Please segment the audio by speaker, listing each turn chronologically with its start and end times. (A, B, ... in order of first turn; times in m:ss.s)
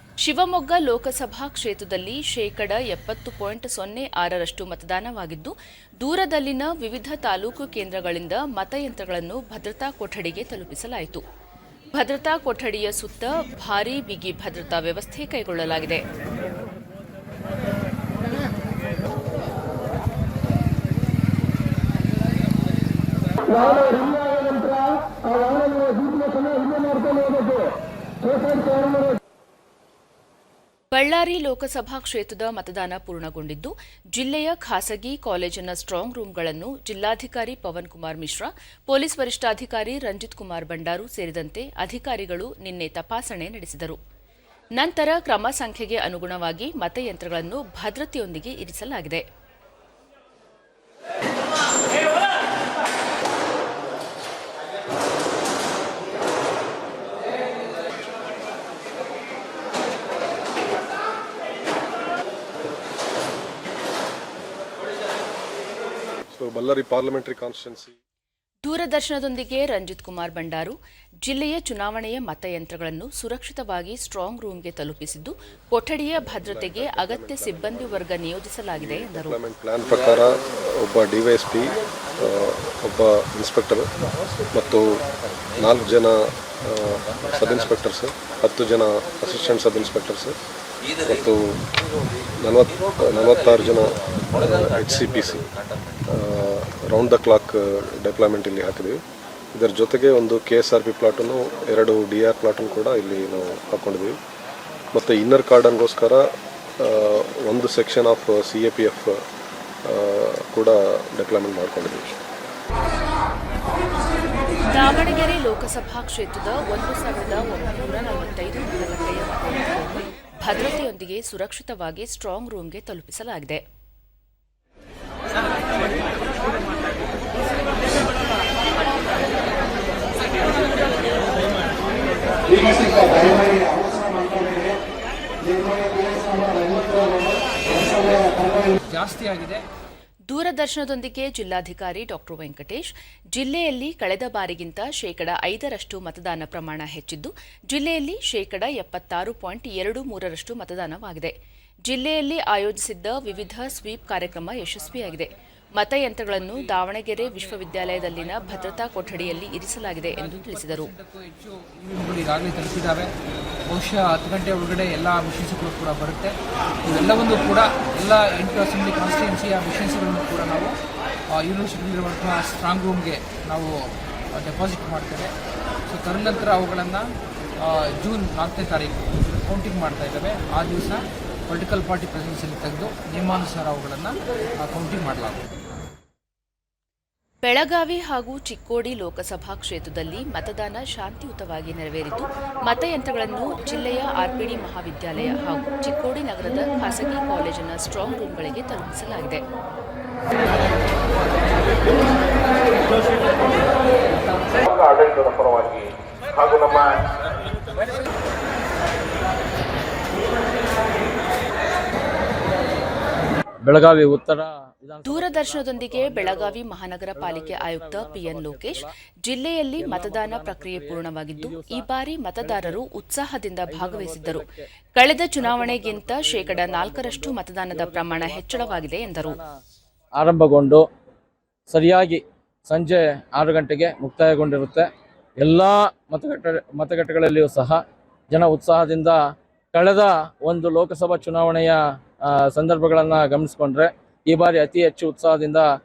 0:00.2-0:11.2 A
0:11.9-0:16.0 A
0:30.9-0:44.0 A
0:44.8-0:49.2 A
1:06.3-1:07.9 B
1:08.6-1:19.4 A
1:16.2-1:18.0 B
1:18.7-1:23.9 B
1:24.5-1:25.0 B
1:25.4-1:25.7 C
1:25.6-1:30.4 B
1:27.1-1:27.5 C
1:31.0-1:31.6 B
1:32.4-1:35.5 B
1:34.4-1:35.8 C
1:36.1-1:39.0 B
1:39.5-1:44.2 B
1:44.9-1:46.2 B
1:46.8-1:49.2 B
1:49.8-1:52.1 B
1:54.7-2:03.6 A
2:12.5-2:13.6 D
2:17.7-2:19.6 D
2:20.3-2:31.3 A
2:31.9-2:40.9 A
2:34.5-2:35.1 D
2:36.3-2:36.7 D
2:37.3-2:43.1 D
2:43.7-2:50.7 D
2:51.3-2:55.3 D
2:55.9-2:57.1 D
2:57.6-3:05.5 D
3:07.4-3:19.4 A
3:24.6-3:25.9 C
3:26.4-3:27.0 C
3:33.6-3:36.6 E
3:35.0-3:44.4 A
3:37.1-3:38.9 E
3:39.8-3:41.8 E
3:42.4-3:42.8 E
3:43.7-3:44.6 E
3:44.9-3:49.4 A
3:45.4-3:49.4 E
3:50.2-3:50.8 E
3:51.7-3:54.9 E
3:55.4-3:59.2 E
3:59.7-4:05.7 E